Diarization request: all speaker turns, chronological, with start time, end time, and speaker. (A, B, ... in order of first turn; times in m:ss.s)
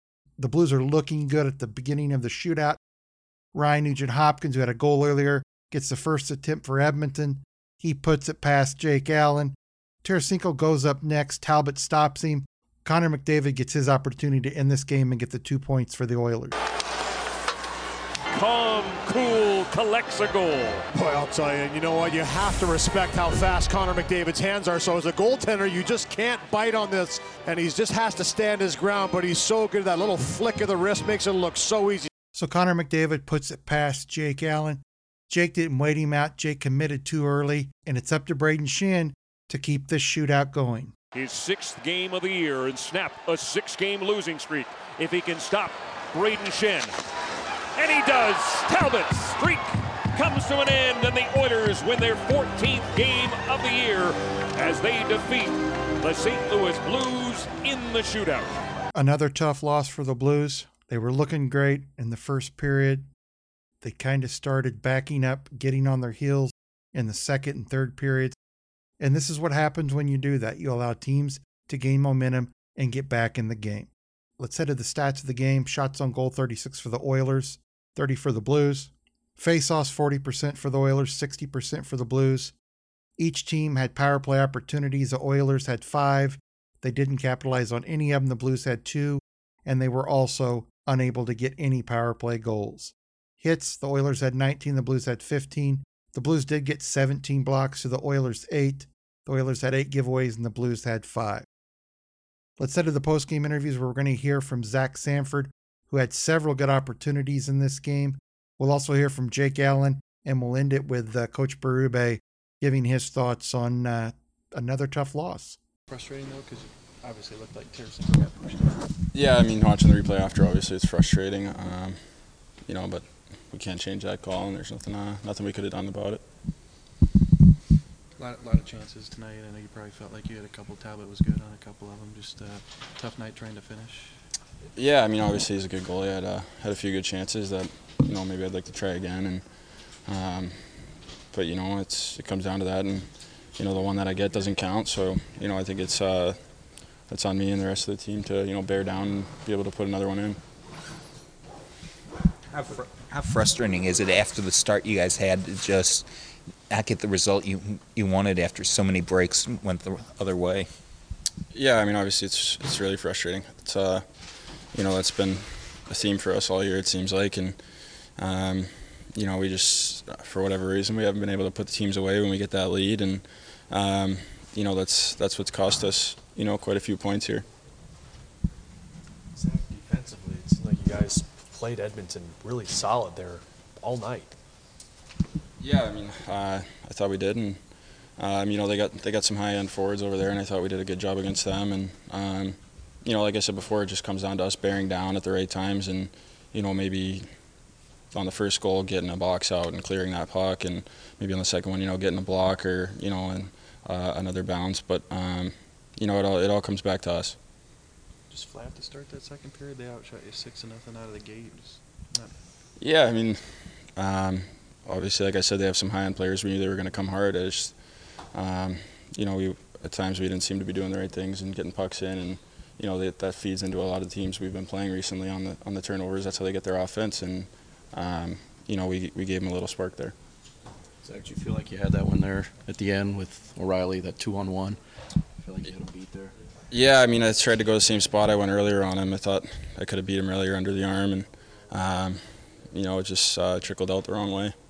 0:00.4-0:02.8 A
0:03.5-0:16.5 A
0:18.3-0:20.9 B
0:20.9-0:32.1 C
0:32.3-0:40.9 A
0:41.1-0:46.9 B
0:47.8-0:58.5 B
0:58.9-1:03.1 A
1:03.8-1:08.4 A
1:09.0-1:22.5 A
1:23.2-1:41.4 A
1:42.6-1:55.6 A
1:55.9-1:58.8 D
1:59.1-2:06.2 E
2:08.2-2:14.2 D
2:14.7-2:30.4 E
2:32.5-2:36.1 F
2:36.7-2:40.7 F
2:41.5-2:57.5 E
2:59.3-3:04.3 G
3:05.6-3:27.4 E
3:28.3-3:32.4 D
3:32.8-3:50.2 E
3:51.0-3:56.4 G
3:56.7-4:04.6 E